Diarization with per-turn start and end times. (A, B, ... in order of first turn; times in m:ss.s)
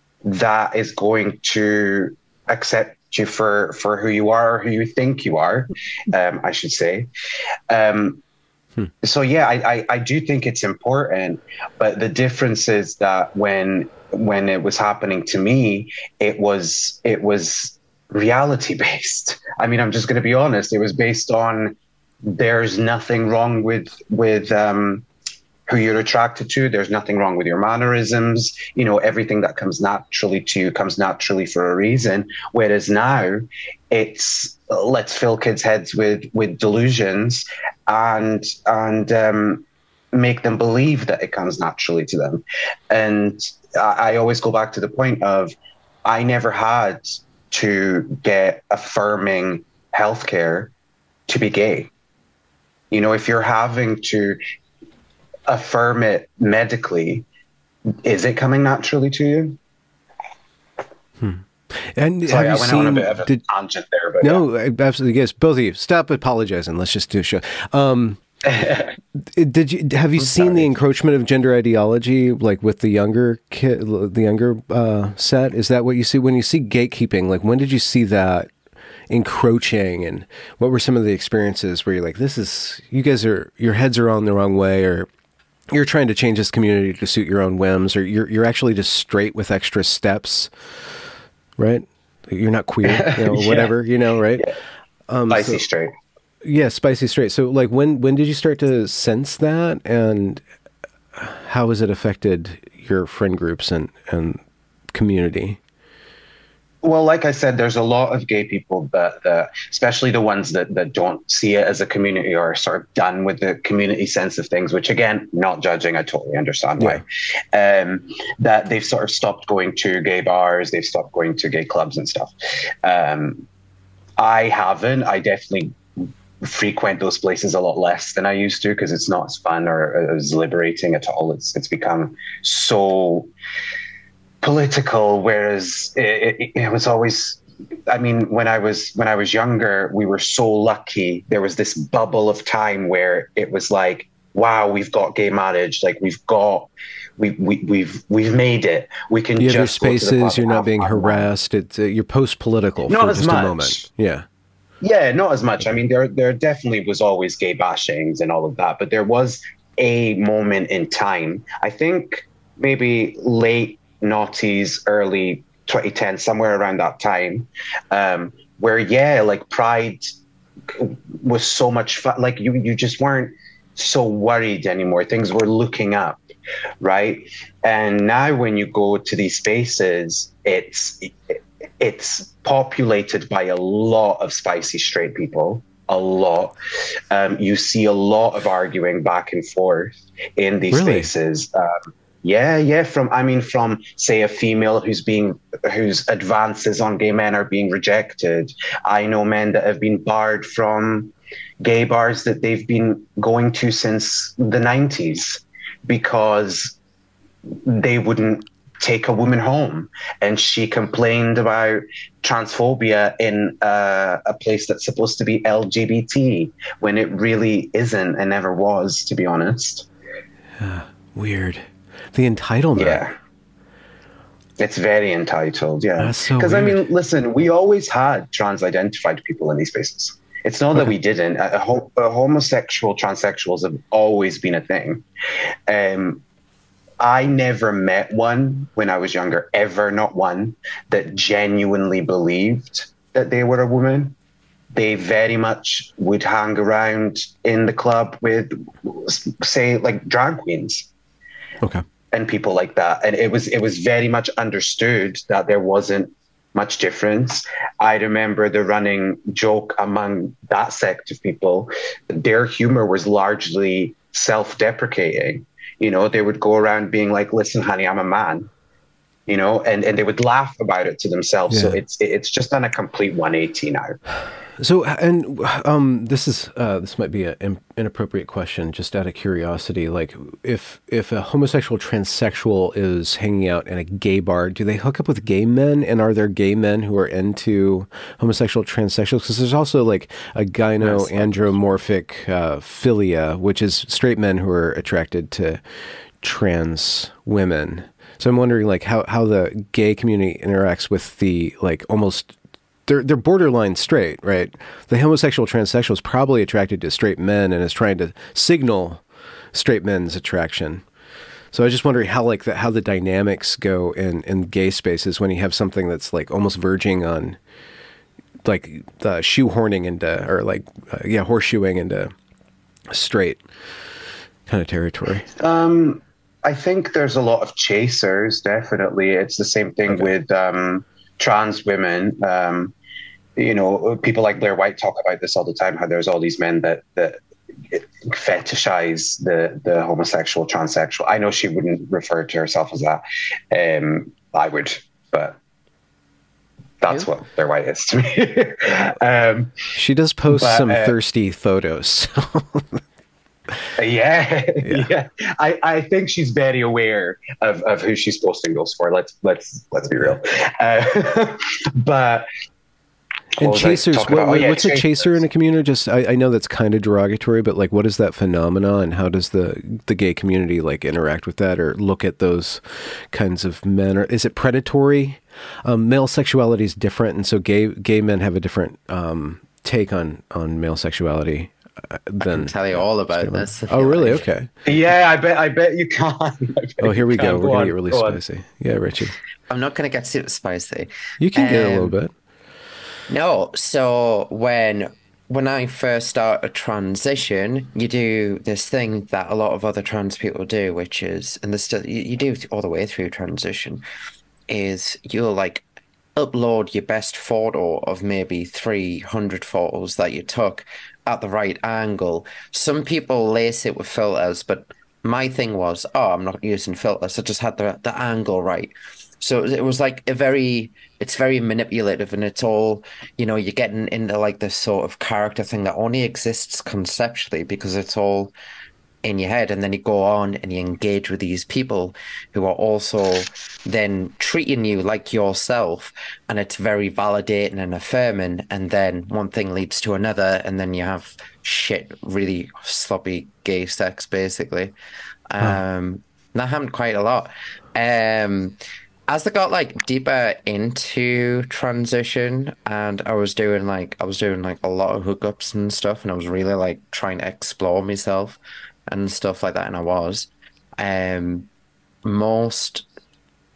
0:00.2-0:07.1 A
0:07.7-0:08.2 A
0:09.0-0:25.0 A
0:25.7-0:45.5 A
0:46.0-0:50.7 A
0:51.3-0:51.9 A
0:52.9-0:54.4 A
0:55.5-0:57.2 A
0:57.9-0:59.6 A
1:01.2-1:03.4 B
1:02.2-1:04.4 A
1:04.2-1:08.2 B
1:08.5-1:08.9 A
1:09.2-1:18.5 B
1:10.2-1:10.7 C
1:19.1-1:25.1 B
1:25.7-1:30.5 B
1:31.6-1:34.5 B
1:32.8-1:33.7 A
1:35.1-1:35.6 B
1:35.3-1:35.9 A
1:36.4-1:40.4 B
1:41.1-1:45.6 B
1:46.8-2:03.4 A
2:04.2-2:05.8 A
2:06.4-2:13.3 A
2:14.4-2:31.3 A
2:29.4-2:34.2 B
2:32.9-2:33.8 A
2:34.8-2:50.1 A
2:50.7-2:56.2 A
2:56.8-3:06.5 A
3:07.1-3:26.8 A
3:10.7-3:11.1 B
3:27.5-3:39.9 A
3:40.6-3:43.0 B
3:42.8-3:43.1 A
3:44.6-3:55.0 A
3:46.0-3:46.8 B
3:55.7-3:56.2 A
3:57.0-4:04.2 A
4:04.7-4:10.9 A
4:12.1-4:28.5 A
4:29.3-4:34.0 A
4:31.5-4:31.8 B
4:34.6-4:55.6 B
4:50.8-4:51.3 C
4:56.2-5:02.3 B
5:02.8-5:10.8 B
5:11.5-5:17.4 B
5:18.4-5:22.1 B
5:22.9-5:23.4 B
5:24.5-5:25.3 B
5:25.4-5:32.7 A
5:33.4-5:37.2 A
5:37.7-5:45.4 A
5:46.8-5:49.5 A
5:49.7-5:52.8 B
5:50.3-5:51.0 A
5:53.8-6:02.3 A
5:54.6-5:54.9 B
6:03.4-6:05.1 A
6:03.4-6:24.5 B
6:22.2-6:24.2 C
6:24.6-6:28.2 A
6:26.8-6:29.2 B
6:29.5-6:32.0 C
6:31.2-6:32.1 B
6:33.1-6:43.8 C
6:44.5-7:08.3 C
7:09.0-7:24.7 C
7:25.3-7:41.5 C
7:42.0-7:42.8 C